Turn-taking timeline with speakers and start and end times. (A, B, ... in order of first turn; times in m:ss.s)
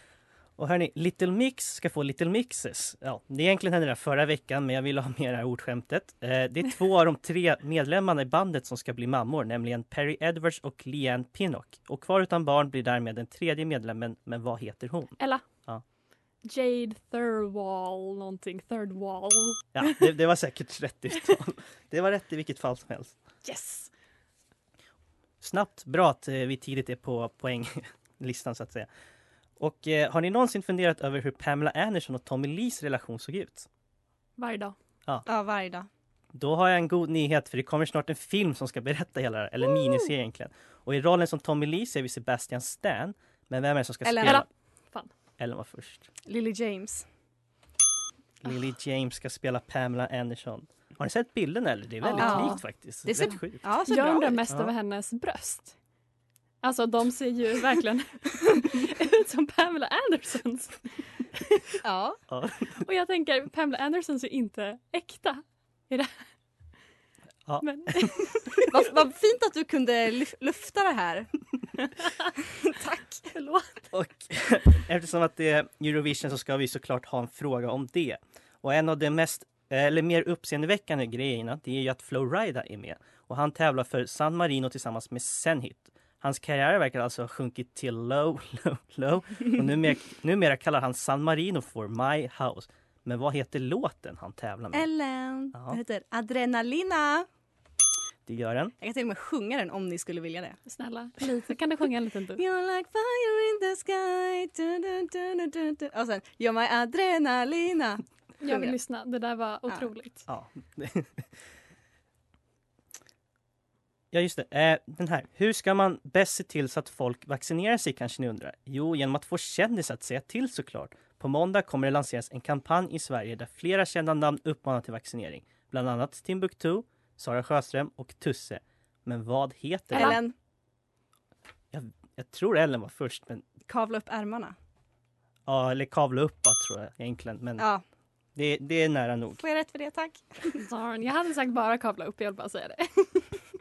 0:00.6-0:15.8 A
0:15.2-0:15.4 B
0:16.4-0:20.0 B
0:19.8-0:23.1 A
0:23.4-0:23.9 B
0:25.4-0:28.9 A
0:29.6-0:33.7 A
0:34.4-0:34.8 B
0:35.3-0:35.9 C
0:36.3-0:44.5 A
0:44.0-0:44.4 C
0:44.2-0:45.1 B
0:45.4-0:46.1 A
0:46.3-0:47.0 C
0:48.4-0:53.7 A
0:52.0-0:52.6 B
0:52.2-0:54.5 C
0:53.9-0:55.7 B
0:56.6-1:00.8 B
1:01.8-1:02.2 C
1:02.3-1:02.8 A
1:02.8-1:06.2 B
1:07.6-1:08.6 B
1:08.7-1:11.3 C
1:12.6-1:13.3 C
1:13.3-1:13.8 B
1:13.9-1:34.9 A
1:34.7-1:37.3 C
1:35.5-1:35.8 A
1:38.3-1:38.7 A
1:38.8-1:40.6 C
1:40.7-1:42.4 B
1:42.4-1:48.8 C
1:48.4-1:50.2 B
1:50.3-1:51.2 A
1:54.1-2:10.2 A
2:09.9-2:10.3 C
2:11.7-2:13.4 A
2:13.7-2:14.6 C
2:15.5-2:17.7 A
2:18.4-2:19.4 A
2:19.4-2:20.6 C
2:20.6-2:23.3 B